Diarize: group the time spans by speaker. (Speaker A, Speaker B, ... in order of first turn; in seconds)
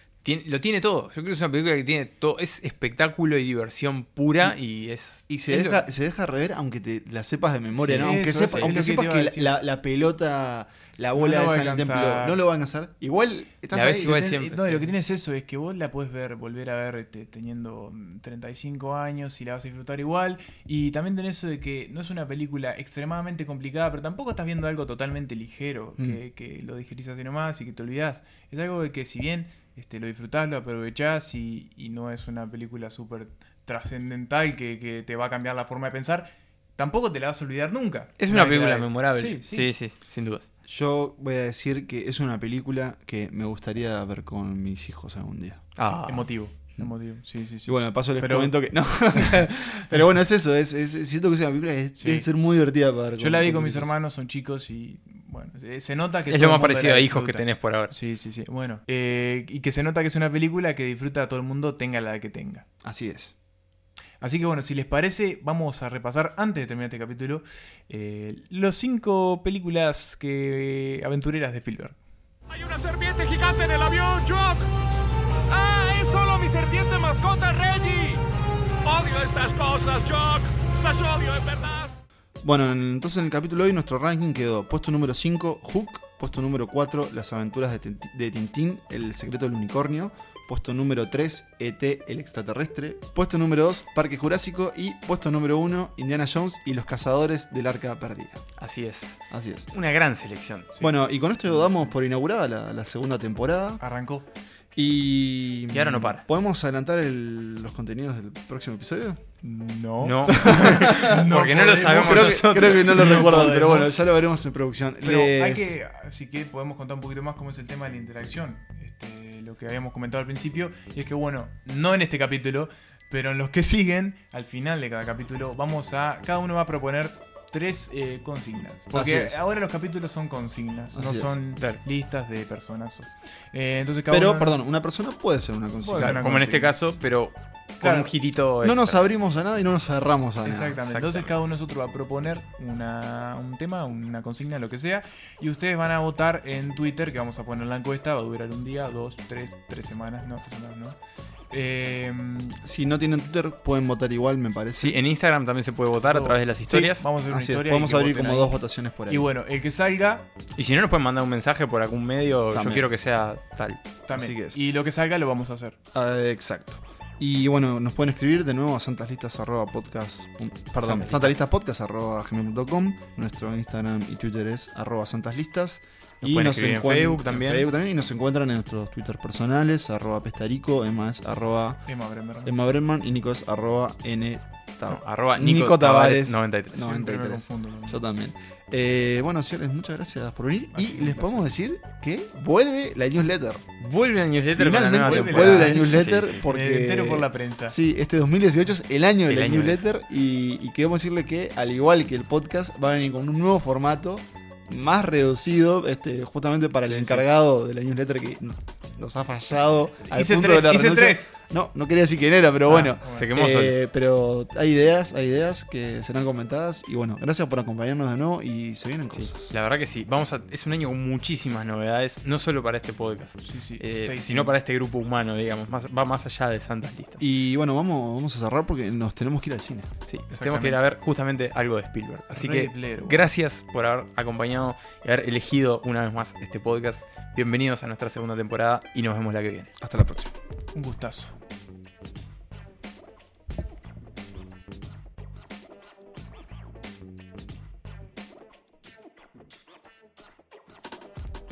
Speaker A: 0.2-5.8, 8.5-8.8, 13.7-14.9, 38.2-40.5, 45.8-46.3, 56.3-57.9, 98.6-99.2, 99.7-100.7, 105.7-106.2, 110.0-113.4, 136.0-139.0, 140.8-141.3, 154.8-157.1, 160.6-163.8, 170.8-171.3, 176.2-177.7, 184.9-186.8, 193.8-196.4, 199.2-199.8, 213.0-213.8, 219.1-227.2, 230.1-239.7
Speaker B: 5.3-14.2, 40.7-45.6, 47.6-53.9, 62.8-63.3, 82.4-98.4, 99.3-99.7, 100.8-103.8, 104.7-109.2, 110.3-111.3, 111.9-115.8, 128.9-129.3, 130.9-131.3, 134.1-136.5, 138.6-140.8, 152.6-155.0, 157.3-159.3, 162.5-162.9, 164.1-164.6, 165.9-181.8, 182.4-193.7, 194.5-219.5, 227.2-229.9, 239.8-240.3
Speaker C: 7.8-9.6, 11.1-12.4, 14.0-39.7, 46.0-48.5, 52.0-52.3, 53.2-62.6, 64.2-72.0, 100.7-101.9, 103.8-104.2, 109.4-114.0, 115.0-134.6, 135.8-136.7, 137.8-138.1, 140.4-150.9, 151.5-152.6, 155.9-158.5, 159.1-160.3, 164.1-165.8, 181.9-182.6, 186.8-188.0, 190.7-191.5, 195.0-197.8, 206.9-207.2, 210.1-211.3, 212.7-213.3, 223.4-224.5, 230.3-230.8, 232.3-233.2, 240.7-241.3
Speaker D: 72.5-74.7, 75.5-78.2, 78.8-81.9